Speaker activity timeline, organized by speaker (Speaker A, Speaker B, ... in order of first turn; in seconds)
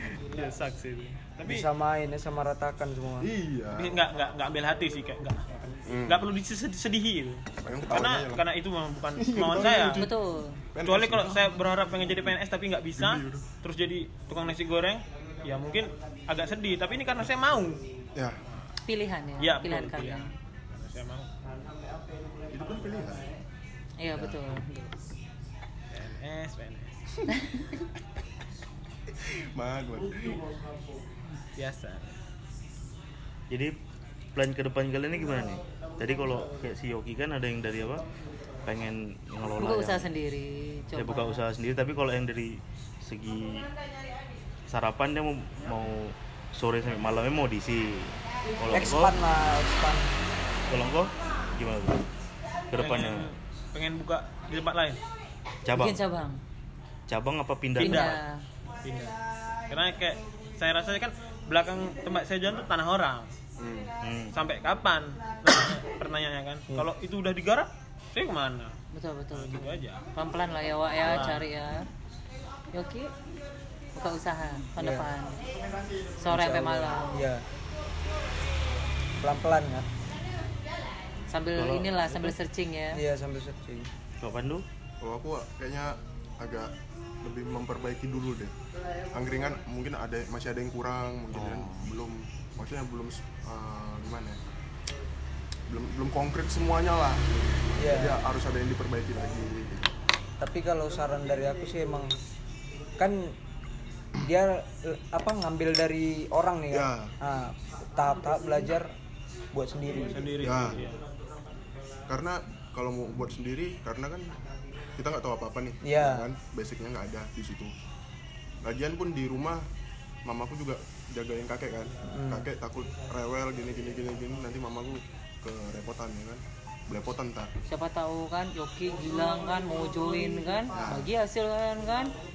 Speaker A: 0.1-1.7, 3.7-10.1, 10.8-17.8, 19.4-21.3, 25.9-26.9, 31.5-32.2, 52.8-55.0, 57.8-58.1, 58.8-59.1, 59.7-63.3, 64.3-68.8, 69.3-70.0, 71.0-71.4, 110.0-111.0
Speaker B: 1.4-3.3, 48.7-50.1, 74.8-75.1, 76.3-77.4, 79.2-79.9, 82.9-83.9, 97.8-98.2, 100.4-102.1, 103.0-103.4, 104.2-108.9, 109.5-110.5, 115.8-116.2, 122.1-122.5
Speaker C: 3.2-4.0, 5.9-6.2, 7.6-8.4, 9.2-10.1, 10.7-11.4, 12.9-13.4, 18.1-18.4, 22.5-23.3, 24.2-24.5, 29.1-30.4, 63.6-63.9, 85.0-88.5, 89.1-94.4, 95.7-99.9, 106.7-107.1, 110.4-110.8, 112.1-114.3, 115.0-117.7, 118.6-119.7, 120.2-127.5, 130.7-131.1
Speaker D: 9.9-10.6, 18.8-20.3, 24.0-24.9, 27.4-27.7, 39.5-41.4, 55.7-56.4, 57.8-58.4, 68.9-71.9, 72.7-73.1, 73.9-75.4, 76.2-77.1, 81.3-83.0, 127.7-132.1
Speaker E: 34.3-38.0, 38.6-40.1, 41.0-43.7, 44.7-49.1, 50.7-52.0, 52.7-53.3, 55.6-56.0, 57.1-58.2, 64.0-64.4, 81.5-82.3, 84.2-84.6, 91.3-91.9